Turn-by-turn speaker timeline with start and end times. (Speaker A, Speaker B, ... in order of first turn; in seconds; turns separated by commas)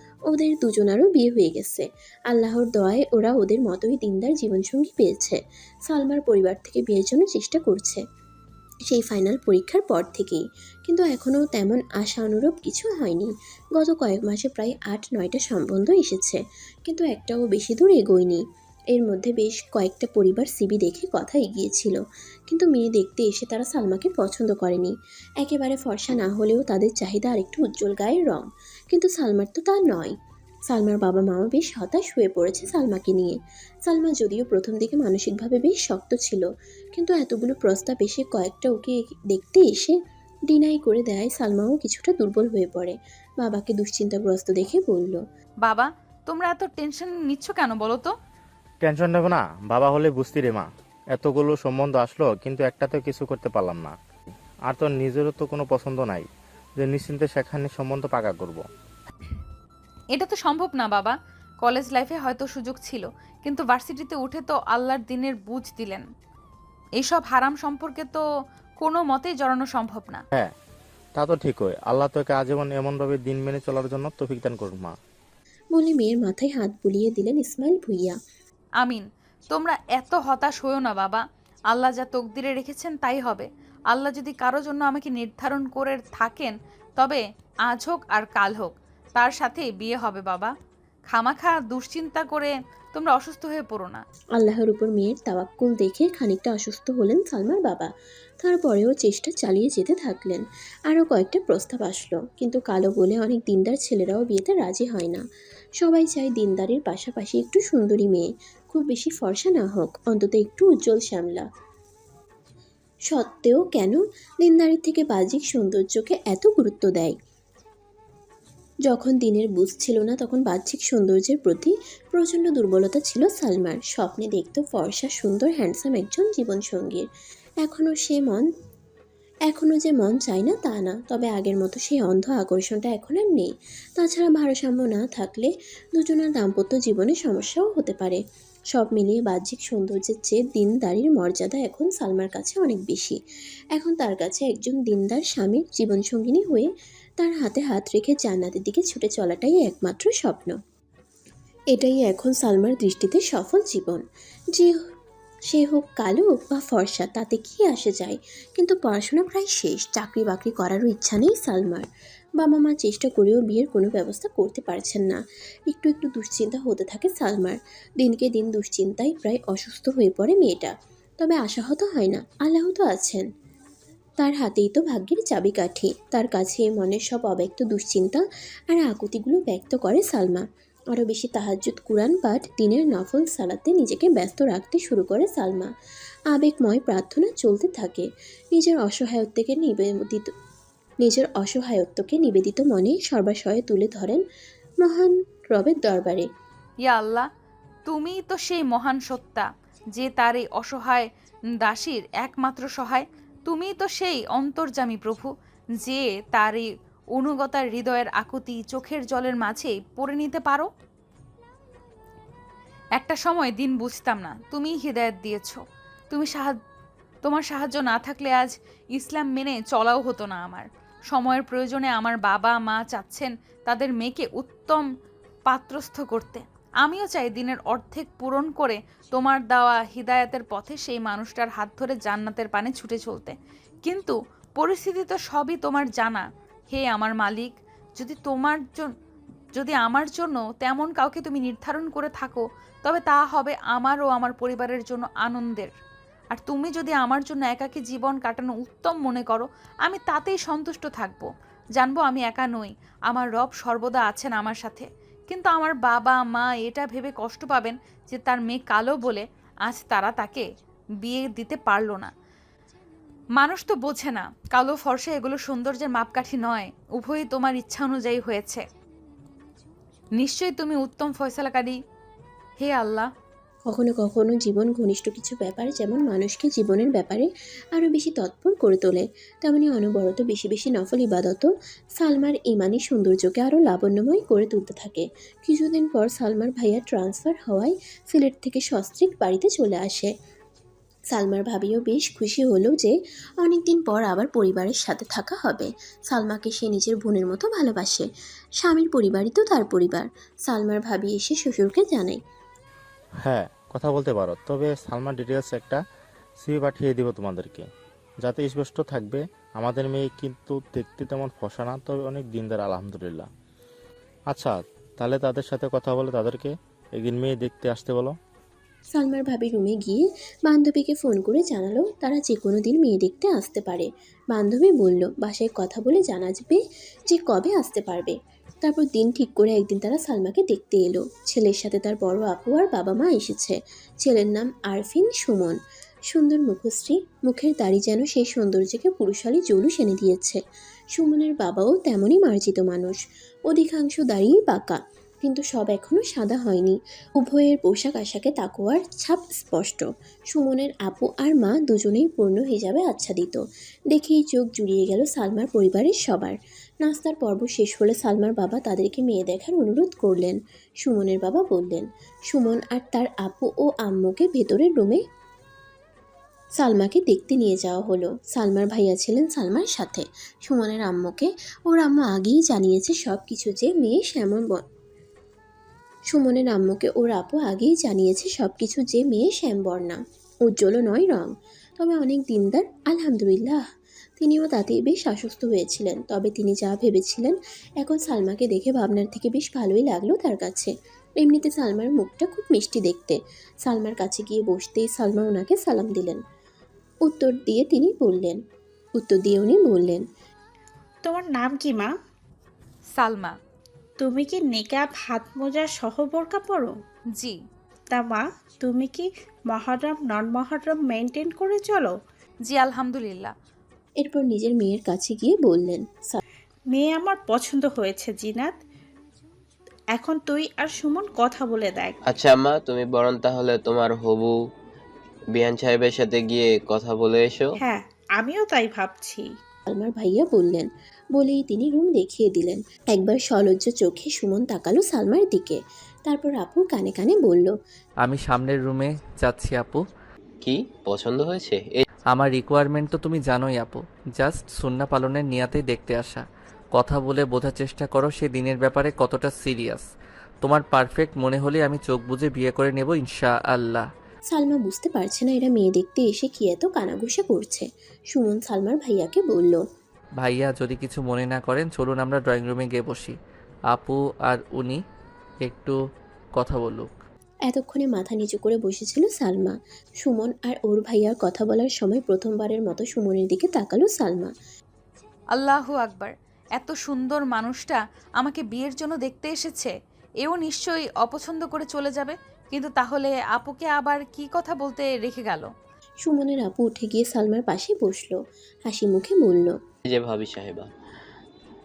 Speaker A: 0.3-8.0, Speaker A: 8.9-30.1, Speaker A: 30.7-40.0, Speaker A: 40.5-45.2, Speaker B: 45.6-48.1, Speaker C: 48.8-53.9, Speaker C: 54.7-56.3, Speaker C: 56.8-58.6, Speaker B: 60.1-66.0, Speaker B: 67.0-68.2, Speaker B: 68.8-70.2, Speaker C: 71.2-74.9, Speaker A: 75.8-78.2, Speaker B: 78.8-90.5, Speaker B: 91.1-94.0, Speaker A: 94.4-97.9, Speaker A: 98.4-105.2, Speaker A: 105.8-111.5, Speaker A: 113.1-117.2, Speaker A: 118.9-127.1, Speaker A: 127.6-128.5, Speaker A: 129.5-138.2, Speaker A: 138.7-143.2, Speaker A: 143.8-150.6, Speaker A: 151.7-154.0, Speaker A: 155.5-161.9, Speaker A: 162.4-165.2, Speaker A: 165.7-173.3, Speaker A: 174.2-185.7, Speaker A: 186.3-190.3, Speaker A: 191.0-194.2, Speaker A: 194.8-196.3, Speaker B: 196.8-197.3, Speaker B: 197.9-201.1, Speaker B: 201.6-205.3, Speaker B: 205.8-210.7, Speaker B: 213.0-216.6, Speaker B: 217.2-224.9, Speaker B: 225.5-238.9, Speaker B: 239.6-245.7, Speaker B: 246.3-260.5, Speaker B: 261.0-262.1, Speaker B: 263.4-268.6, Speaker B: 270.2-271.8, Speaker B: 272.6-273.1, Speaker A: 273.7-281.5, Speaker A: 282.0-290.1, Speaker A: 291.1-298.1, Speaker A: 298.6-302.2, Speaker C: 303.2-305.8, Speaker C: 306.4-307.7, Speaker C: 308.2-313.3, Speaker C: 314.3-318.1, Speaker A: 318.9-335.6, Speaker A: 336.1-340.4, Speaker A: 340.9-343.0, Speaker A: 343.5-365.0, Speaker A: 366.6-374.6, Speaker A: 376.1-383.6, Speaker A: 384.2-396.2, Speaker A: 397.0-398.4, Speaker A: 399.0-400.0, Speaker D: 401.1-401.9, Speaker B: 403.0-403.3, Speaker D: 404.0-406.8, Speaker D: 407.9-411.9, Speaker B: 412.5-413.3, Speaker A: 414.0-416.2, Speaker D: 416.7-418.6, Speaker D: 419.9-422.0, Speaker E: 422.1-424.4, Speaker E: 425.3-427.5, Speaker D: 427.6-429.3, Speaker A: 429.7-437.5, Speaker F: 438.0-439.8, Speaker E: 440.4-441.9, Speaker F: 442.1-449.9, Speaker F: 450.4-453.9, Speaker A: 454.3-459.6, Speaker F: 460.2-463.2, Speaker F: 463.7-464.8, Speaker F: 465.4-465.8, Speaker F: 466.4-467.0, Speaker A: 467.5-474.3, Speaker B: 475.4-479.7, Speaker B: 480.2-485.5, Speaker A: 486.0-489.5, Speaker E: 489.9-490.7